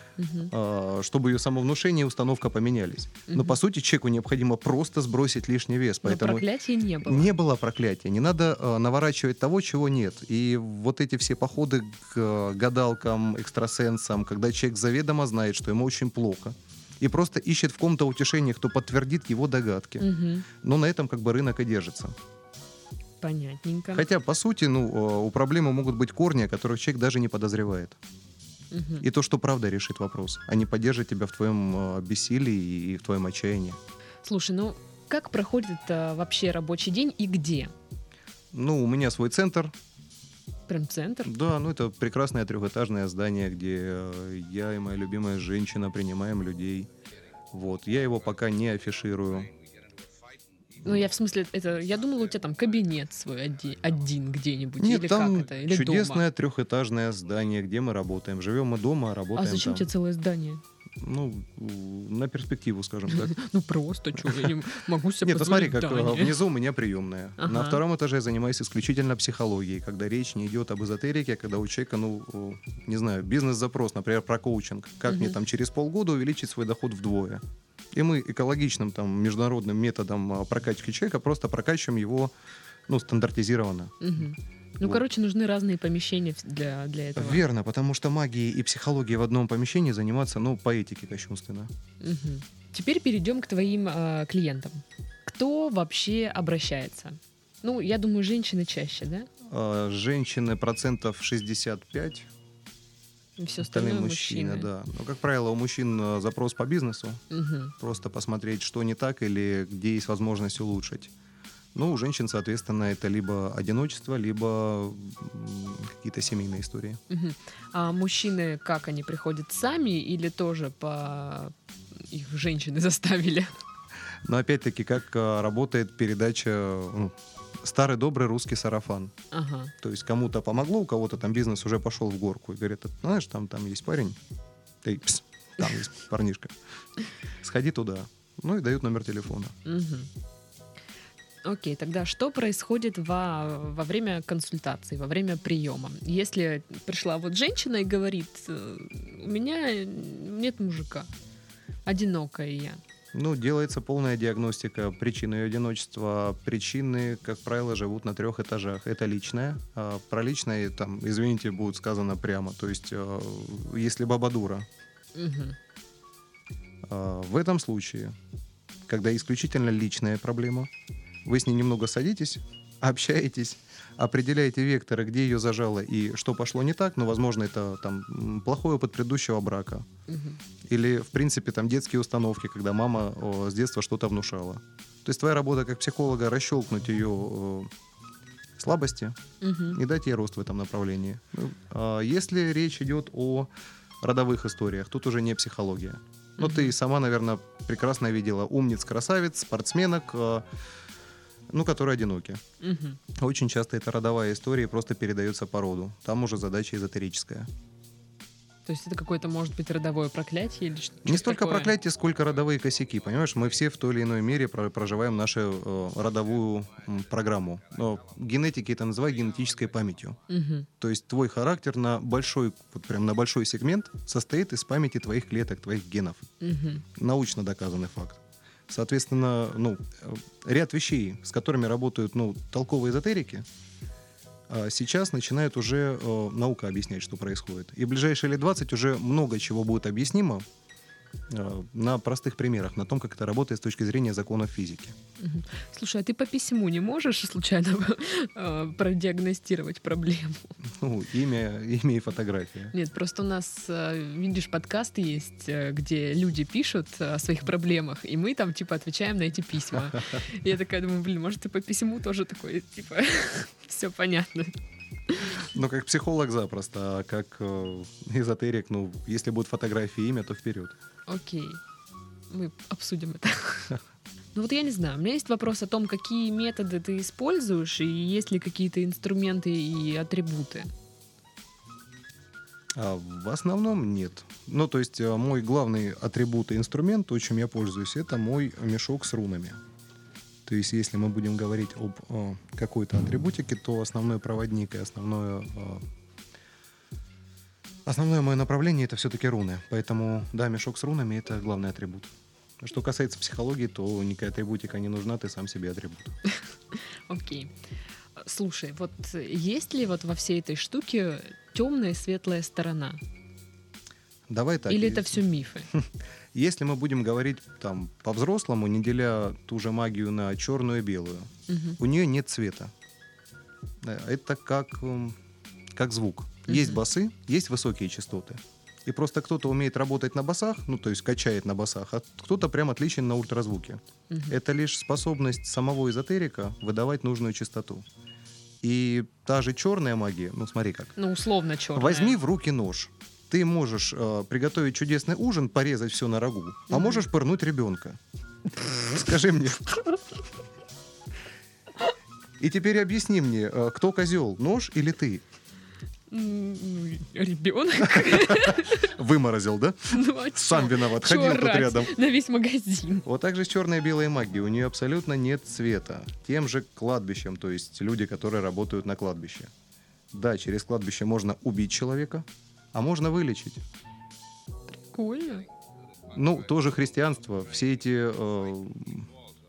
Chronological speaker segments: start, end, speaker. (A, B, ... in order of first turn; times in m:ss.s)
0:00.2-0:00.5 A
0:00.5-0:06.4 B
0:03.3-0:03.6 A
0:06.0-0:07.3 A
0:07.0-0:22.2 B
0:20.0-0:20.5 A
0:23.2-0:24.1 A
0:23.9-0:28.0 B
0:28.7-0:29.0 A
0:29.0-0:33.8 B
0:34.2-0:37.7 A
0:38.5-0:39.7 B
0:40.7-0:41.3 A
0:41.2-0:46.9 B
0:47.5-0:49.5 B
0:50.8-0:56.2 A
0:54.8-0:59.9 B
0:59.3-1:00.6 A
1:01.0-1:03.3 B
1:03.1-1:06.4 A
1:04.1-1:04.5 B
1:05.2-1:17.4 B
1:07.4-1:07.8 A
1:15.1-1:15.4 A
1:17.9-1:22.3 B
1:22.9-1:24.2 B
1:24.0-1:27.4 A
1:27.2-1:31.7 B
1:32.0-1:39.3 A
1:39.4-1:42.3 B
1:43.4-1:44.7 A
1:43.6-1:47.2 B
1:47.3-1:47.7 A
1:47.8-1:51.1 B
1:51.7-1:57.0 B
1:57.1-2:03.5 A
2:04.2-2:09.1 B
2:09.3-2:09.7 A
2:09.8-2:14.2 B
2:14.8-2:16.5 B
2:17.4-2:19.5 B
2:19.6-2:20.1 A
2:21.4-2:31.1 A
2:31.8-2:32.8 A
2:33.1-2:44.7 B
2:45.1-2:45.6 A
2:46.9-2:48.1 B
2:48.9-2:50.7 B
2:51.2-2:59.9 B
3:00.1-3:00.4 A
3:00.7-3:07.7 B
3:08.6-3:09.2 B
3:09.4-3:09.8 A
3:09.7-3:13.5 B
3:14.0-3:20.4 B
3:16.4-3:16.7 A
3:21.5-3:22.4 B
3:22.6-3:23.0 A
3:23.1-3:27.5 B
3:28.6-3:31.8 A
3:31.0-3:40.2 B
3:40.3-3:40.7 A
3:40.8-3:46.3 B
3:46.4-3:46.8 A
3:46.9-3:53.4 B
3:54.5-4:00.4 B
4:01.3-4:05.0 B
4:05.2-4:10.5 A
4:10.7-4:12.7 B
4:12.7-4:24.5 A
4:25.1-4:25.5 A
4:25.4-4:30.8 B
4:31.1-4:31.6 A
4:32.3-4:33.8 A
4:34.3-4:40.7 A
4:42.8-4:49.6 B
4:50.4-4:55.8 B
4:57.8-5:06.1 B
5:06.3-5:07.5 A
5:08.2-5:13.0 A
5:14.3-5:22.7 B
5:14.7-5:15.7 A
5:21.5-5:21.8 A
5:23.8-5:25.2 B
5:25.7-5:37.8 B
5:26.5-5:26.8 A
5:38.6-5:40.9 B
5:41.0-5:42.2 A
5:41.7-5:48.0 B
5:46.7-5:47.0 A
5:48.9-5:49.8 B
5:52.4-5:55.2 B
5:56.1-5:58.9 A
5:58.0-6:01.9 B
5:59.9-6:03.0 A
6:03.0-6:09.5 B
6:10.1-6:13.6 B
6:14.9-6:15.4 A
6:16.1-6:19.1 B